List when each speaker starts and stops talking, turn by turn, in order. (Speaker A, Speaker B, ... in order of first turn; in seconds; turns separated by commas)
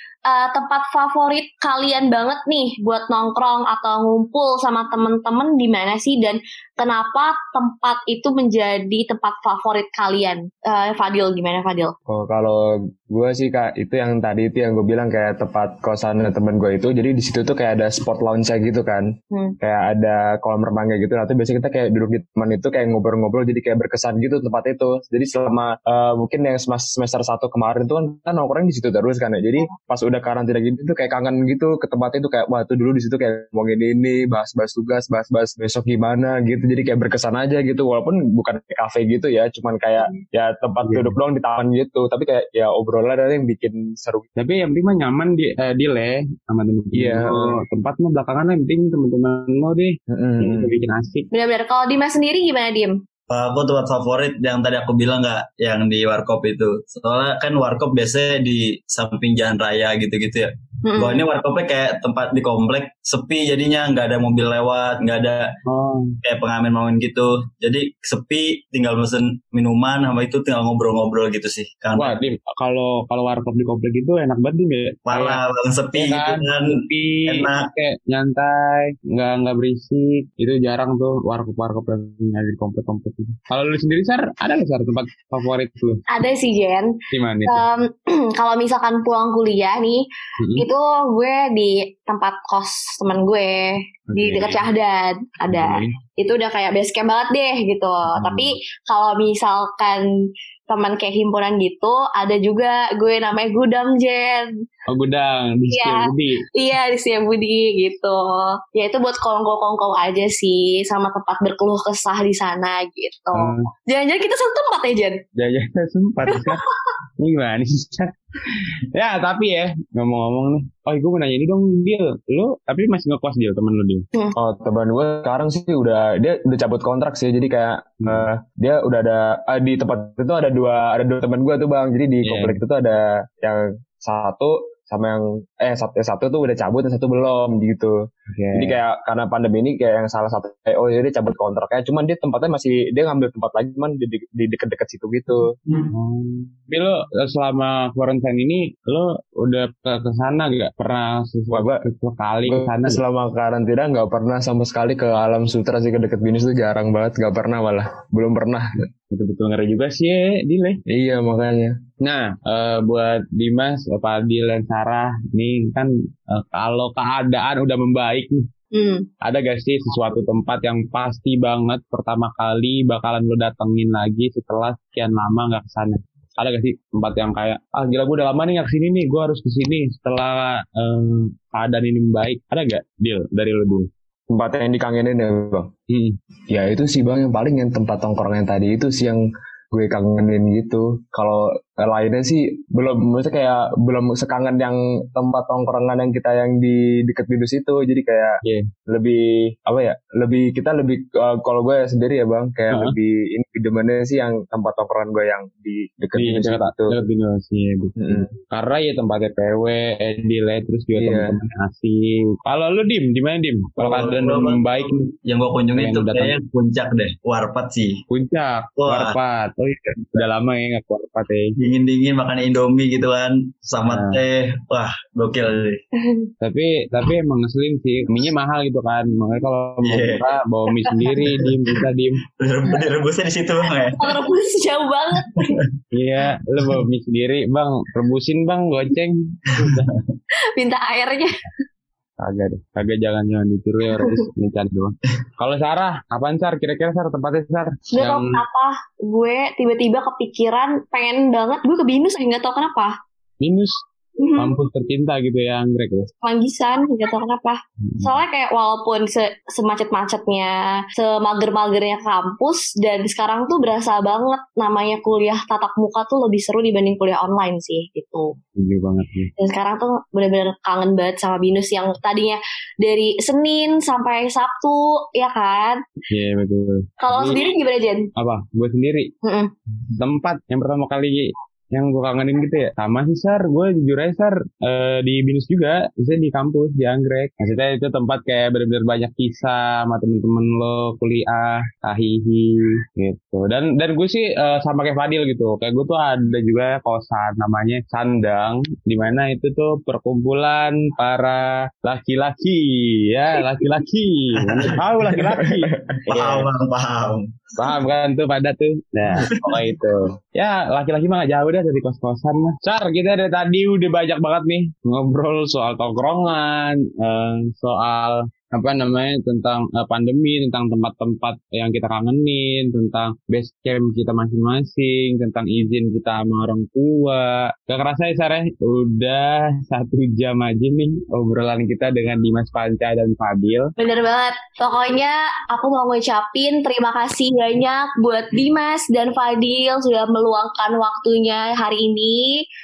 Speaker A: 0.3-11.9, Speaker B: 12.1-44.3, Speaker A: 19.3-19.6, Speaker C: 40.8-41.2, Speaker C: 44.4-51.3, Speaker B: 46.9-47.6, Speaker B: 50.1-50.7, Speaker A: 51.3-53.0, Speaker D: 53.3-65.5, Speaker A: 60.8-61.2, Speaker C: 65.7-66.2, Speaker D: 66.2-72.2, Speaker C: 72.0-75.4, Speaker D: 75.1-77.7, Speaker C: 75.9-86.0, Speaker A: 86.1-86.9, Speaker C: 87.1-87.6, Speaker A: 87.5-90.0, Speaker C: 90.4-90.7, Speaker A: 90.6-100.1, Speaker C: 94.1-94.7, Speaker C: 95.5-96.0, Speaker C: 98.1-98.5, Speaker A: 100.7-104.5, Speaker C: 104.9-106.5, Speaker A: 105.7-115.2, Speaker C: 113.3-113.7, Speaker C: 115.4-116.7, Speaker A: 116.3-116.6, Speaker C: 117.2-124.1, Speaker B: 124.4-138.0, Speaker C: 132.2-132.6, Speaker C: 138.3-138.8, Speaker B: 138.5-145.6, Speaker C: 145.9-153.0, Speaker B: 151.5-151.9, Speaker B: 152.4-158.8, Speaker C: 159.1-160.8, Speaker B: 160.9-161.8, Speaker C: 162.0-168.5, Speaker A: 168.7-169.1, Speaker C: 169.2-183.9, Speaker B: 184.3-185.7, Speaker C: 185.9-186.2, Speaker B: 186.5-206.9, Speaker C: 198.4-198.7, Speaker C: 206.2-215.1, Speaker B: 208.0-208.3, Speaker B: 210.9-211.4, Speaker D: 213.8-218.0, Speaker C: 215.8-216.3, Speaker C: 218.1-221.6, Speaker D: 218.8-219.2, Speaker D: 221.6-225.8, Speaker C: 223.9-224.2, Speaker A: 226.0-226.3, Speaker C: 226.4-232.2, Speaker D: 229.8-230.2, Speaker D: 231.1-231.5, Speaker D: 232.4-234.1, Speaker A: 234.0-235.6, Speaker D: 235.4-235.6, Speaker C: 235.9-239.9, Speaker D: 239.6-240.0, Speaker A: 240.6-241.5, Speaker C: 242.2-248.4, Speaker A: 247.9-252.9, Speaker C: 253.4-253.8, Speaker A: 254.2-254.6, Speaker C: 254.4-256.1, Speaker A: 256.2-268.4, Speaker C: 257.8-258.1, Speaker C: 268.6-269.3, Speaker A: 269.4-275.8, Speaker C: 276.1-277.4, Speaker A: 277.0-278.1, Speaker C: 278.2-279.1, Speaker A: 279.2-279.5, Speaker C: 279.9-306.5, Speaker D: 304.4-304.8, Speaker B: 305.1-306.0, Speaker D: 306.1-307.4, Speaker C: 307.6-333.7, Speaker D: 309.2-309.5, Speaker A: 333.8-342.4